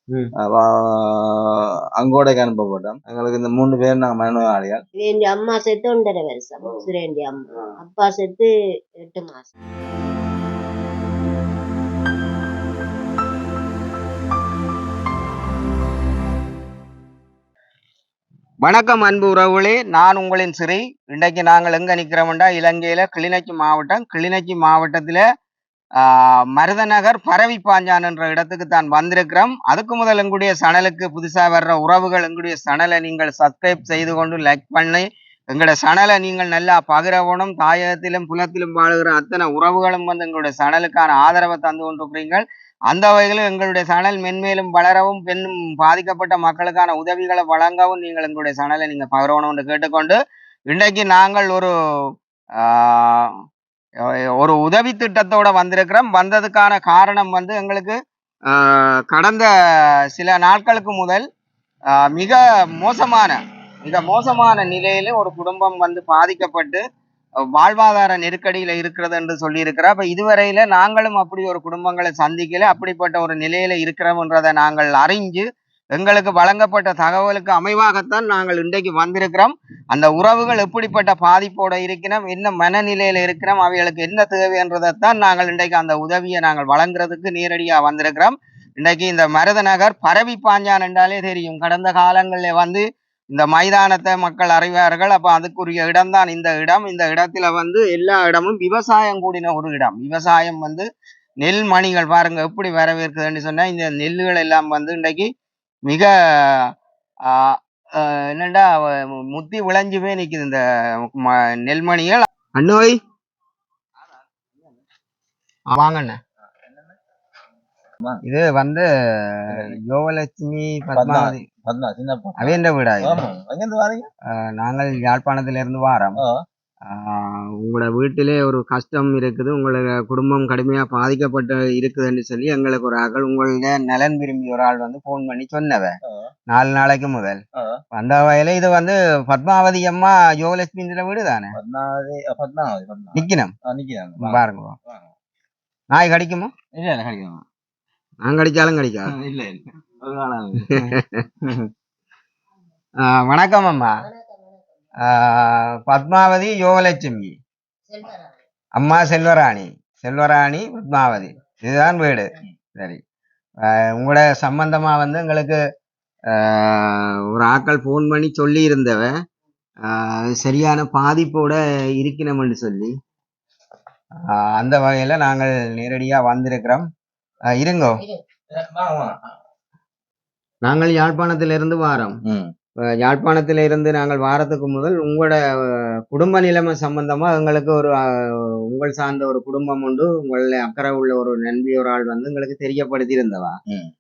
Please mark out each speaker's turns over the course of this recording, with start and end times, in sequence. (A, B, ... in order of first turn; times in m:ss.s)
0:00.4-0:04.8 A
0:05.0-0:08.5 B
0:09.0-0:09.5 B
0:18.6-0:25.2 C
0:26.0-0:51.7 C
0:52.6-0:53.3 C
0:54.0-0:59.5 C
1:00.1-1:01.3 C
1:01.9-1:06.8 C
1:07.5-1:40.9 C
1:41.4-1:45.3 C
1:45.9-1:46.7 C
1:47.2-1:53.0 C
1:55.7-1:56.2 C
1:58.2-2:01.4 C
1:59.5-1:59.8 A
2:01.0-2:04.1 A
2:02.4-2:03.2 C
2:04.3-2:06.2 C
2:06.2-2:06.4 A
2:06.8-2:16.0 C
2:16.5-2:17.4 C
2:17.9-2:21.5 C
2:21.5-2:25.1 A
2:23.2-2:23.5 C
2:24.2-2:24.8 C
2:25.9-2:26.5 C
2:26.7-2:27.4 A
2:28.2-2:29.1 C
2:29.1-2:30.9 A
2:30.7-2:31.2 C
2:33.0-2:34.0 C
2:34.0-2:34.6 B
2:35.0-2:37.4 C
2:37.9-2:38.4 B
2:38.8-2:43.0 C
2:43.6-2:45.6 C
2:46.3-2:49.1 C
2:49.8-2:52.9 C
2:54.3-2:56.9 C
2:57.5-2:58.0 C
2:58.5-2:59.2 A
3:00.6-3:02.2 C
3:02.2-3:02.5 A
3:03.0-3:13.6 C